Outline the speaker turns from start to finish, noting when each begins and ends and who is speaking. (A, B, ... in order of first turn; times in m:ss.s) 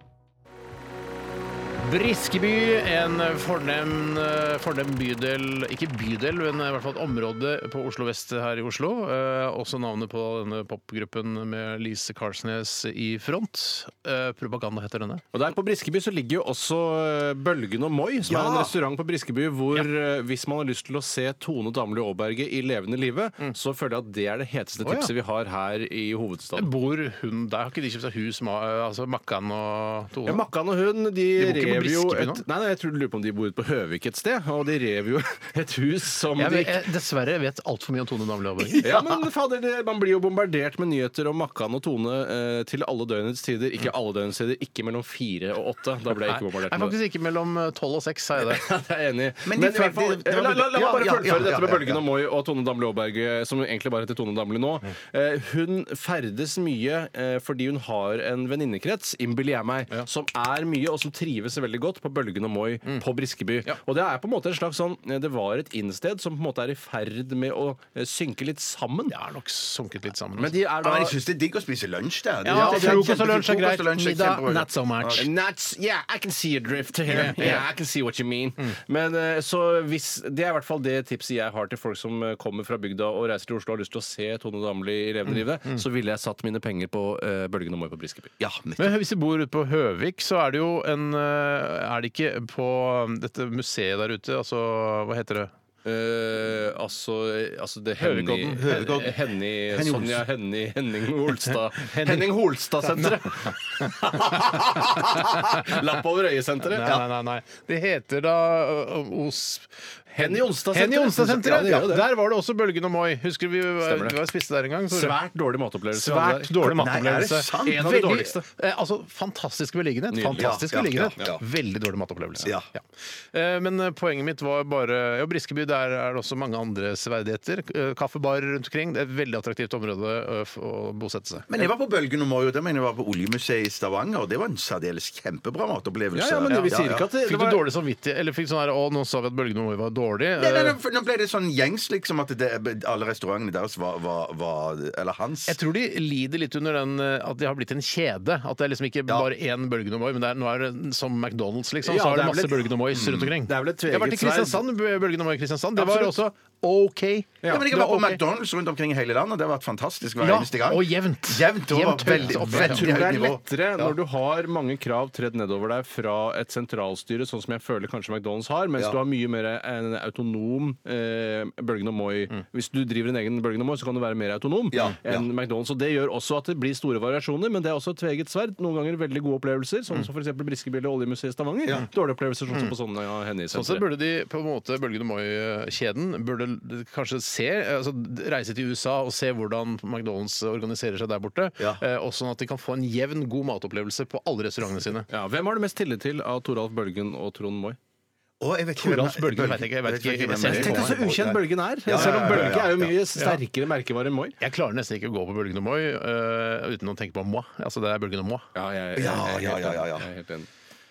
0:01.8-0:15.2 A
0:15.3-0:26.7 B
0:18.3-0:18.7 C
0:24.8-0:25.1 A
0:26.6-0:30.4 A
0:30.3-0:36.8 B
0:31.4-0:32.4 A
0:36.4-0:39.0 A
0:38.8-0:47.0 B
0:46.2-0:48.6 A
0:48.4-1:09.2 B
0:49.4-0:52.0 C
1:09.1-1:10.6 A
1:10.4-1:11.2 B
1:10.8-1:15.3 C
1:12.4-1:15.3 A
1:12.5-1:13.1 B
1:15.2-1:28.3 B
1:17.1-1:17.6 A
1:17.2-1:17.6 C
1:28.4-1:29.0 C
1:28.8-1:35.5 A
1:35.8-1:46.9 B
1:38.0-1:38.9 A
1:38.6-1:40.2 C
1:41.8-1:42.3 A
1:42.9-1:44.6 A
1:45.2-1:45.7 A
1:46.7-1:55.2 A
1:46.8-1:47.0 C
1:50.2-1:52.1 B
1:51.4-1:51.9 C
1:53.8-1:54.2 B
1:54.9-1:56.9 B
1:55.9-2:11.6 A
1:56.6-1:58.2 C
1:57.6-1:58.4 B
2:00.1-2:00.6 B
2:00.4-2:01.4 C
2:02.4-2:02.7 C
2:11.5-2:17.0 C
2:16.1-2:17.6 B
2:16.5-2:20.8 A
2:20.4-2:25.6 C
2:25.5-2:38.2 A
2:31.8-2:34.6 B
2:32.9-2:33.3 C
2:35.8-2:36.2 B
2:37.4-2:44.0 C
2:40.2-2:43.0 A
2:42.2-3:03.9 B
2:54.7-2:55.3 C
3:03.5-3:15.1 A
3:15.1-3:17.8 B
3:18.4-3:22.9 C
3:18.8-3:21.0 A
3:20.4-3:24.4 B
3:22.0-3:22.3 A
3:24.4-3:28.5 A
3:28.6-3:30.5 B
3:29.0-3:30.1 C